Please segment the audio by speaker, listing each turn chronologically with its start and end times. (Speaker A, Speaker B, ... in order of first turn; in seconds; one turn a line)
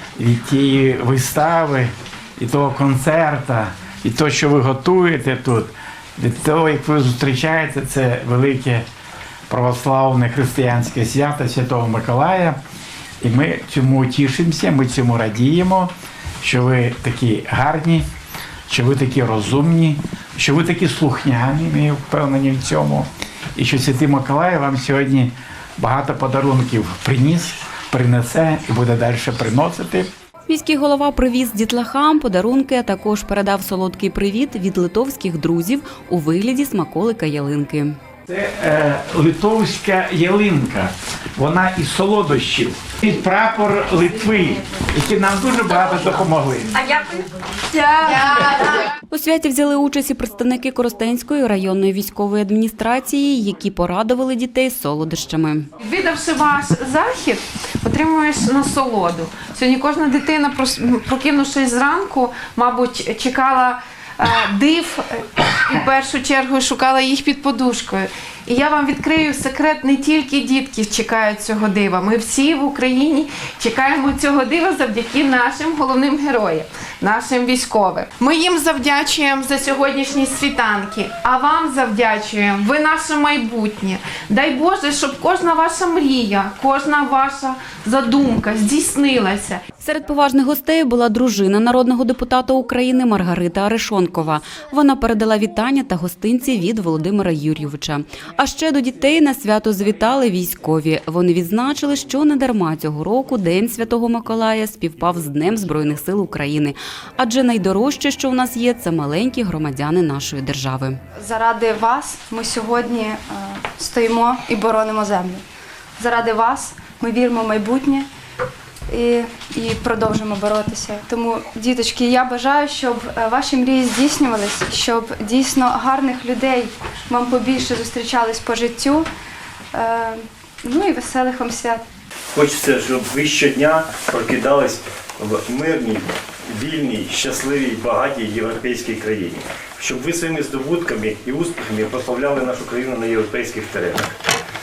Speaker A: 0.2-8.9
Speaker A: 9.5-12.6
Speaker A: 13.2-15.9
Speaker A: 16.4-18.1
Speaker A: 18.7-30.1
Speaker B: 30.5-38.0
Speaker A: 38.3-46.9
Speaker C: 47.9-48.7
Speaker B: 48.8-55.7
Speaker C: 55.8-89.6
Speaker B: 89.8-111.0
Speaker D: 111.2-115.4
Speaker D: 116.0-118.1
Speaker D: 118.9-129.1
Speaker D: 129.7-131.8
Speaker E: 132.3-144.1